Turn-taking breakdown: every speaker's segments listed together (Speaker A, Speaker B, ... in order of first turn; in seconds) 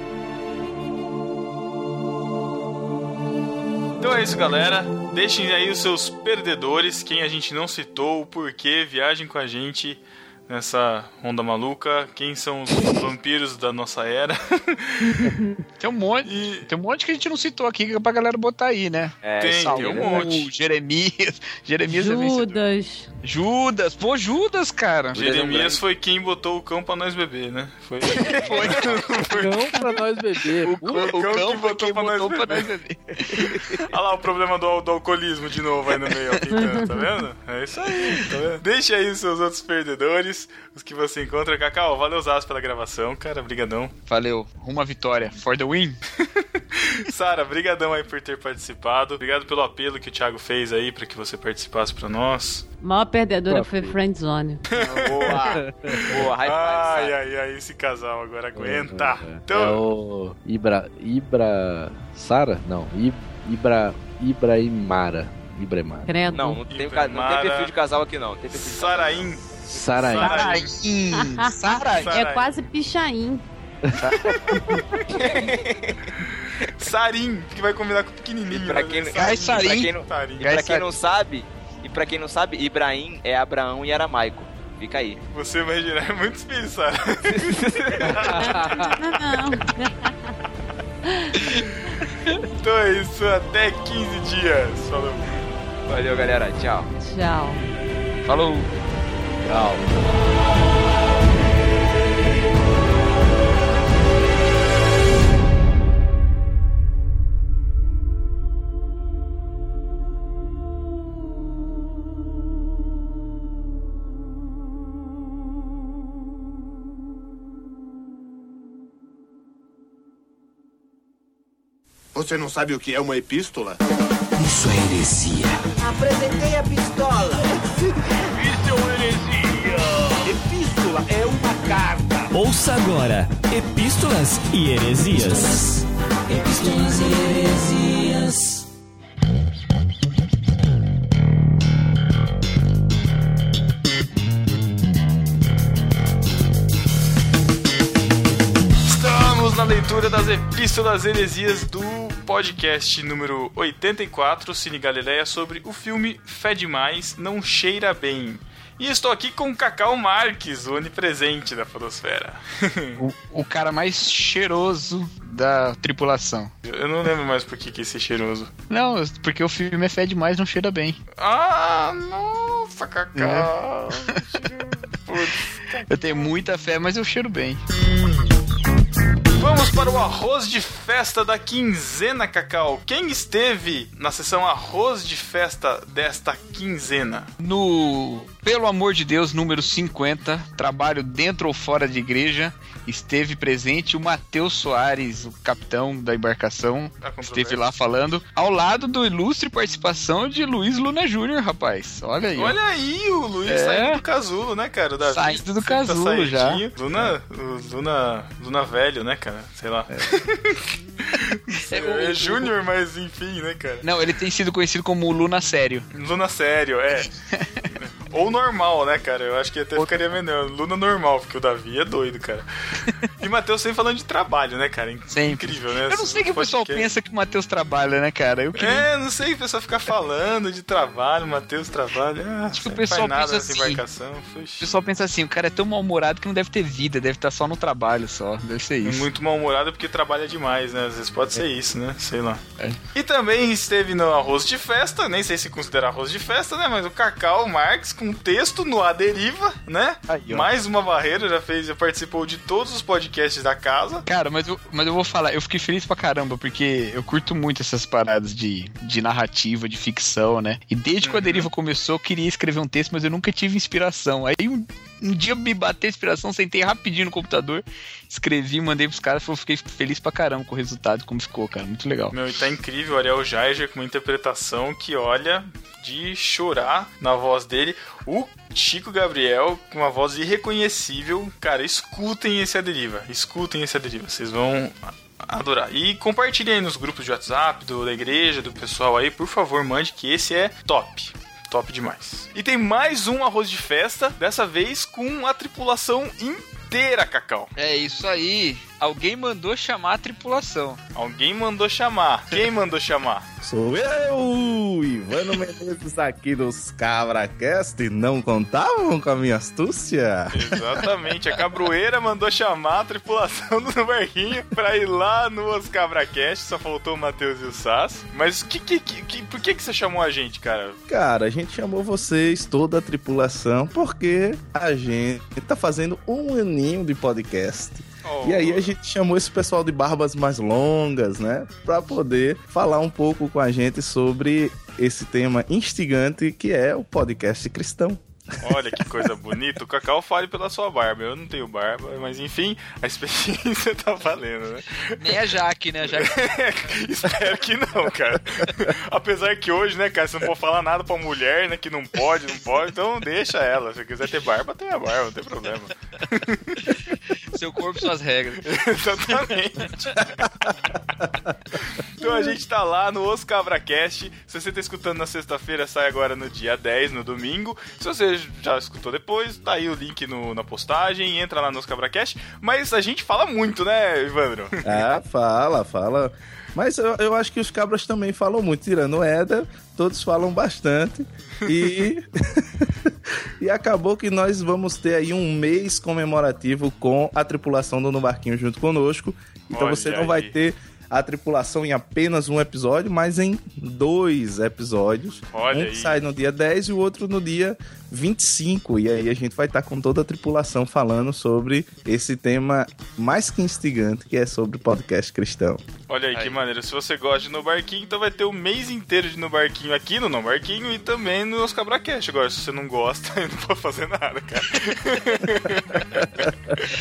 Speaker A: 4.0-15.3, 16.2-16.7, 19.4-20.5, 25.2-29.8, 30.9-32.7, 33.9-43.9, 46.4-52.6, 54.7-59.8, 66.7-67.7, 68.5-70.7, 71.9-72.5, 76.2-80.5, 85.3-89.0, 92.6-95.3, 148.8-163.0, 166.6-168.5, 171.2-176.3, 179.4-187.3, 197.0-197.6, 202.3-213.8, 215.9-217.1, 217.7-222.5, 223.2-226.9, 228.5-234.7, 238.8-242.4, 242.9-254.0, 261.0-261.5, 272.1-297.5, 300.9-303.2, 310.3-320.8, 328.0-328.7, 338.4-345.4, 345.9-356.8, 358.4-360.2, 361.6-374.8, 381.4-381.9, 389.5-390.4, 395.3-396.0, 405.9-415.9
Speaker B: 15.0-15.6, 21.9-23.1, 36.5-36.9, 52.8-54.6, 66.1-66.6, 71.1-73.4, 88.4-90.3, 91.1-91.6, 97.0-97.6
Speaker C: 15.8-22.6, 23.2-25.3, 28.3-29.0, 30.6-33.8, 44.1-46.0, 70.2-72.2, 74.0-74.3, 79.2-80.9, 98.2-98.7, 163.0-166.5, 168.7-171.0, 173.1-173.5, 175.9-177.6, 187.4-202.6, 203.5-204.0, 205.0-206.6, 211.5-212.5, 213.8-215.9, 217.3-217.6, 219.8-220.0, 222.8-223.1, 225.1-228.9, 232.5-233.8, 234.6-239.1, 250.1-250.5, 254.1-272.1, 297.6-300.8, 345.0-346.1, 357.3-358.4
Speaker D: 19.2-20.4, 25.1-25.8, 28.2-28.8, 33.3-33.6, 54.8-57.1, 66.3-69.3, 75.1-76.7, 78.5-85.2, 87.3-88.4, 95.9-96.9
Speaker E: 29.3-31.2, 53.5-54.0, 55.5-56.3, 58.5-66.1, 69.7-70.5, 99.4-99.8
Speaker F: 122.1-123.8, 125.8-132.3
Speaker G: 124.4-125.5, 132.3-135.8
Speaker H: 303.4-310.8, 320.9-338.0, 374.6-382.4, 383.4-405.6, 415.9-416.5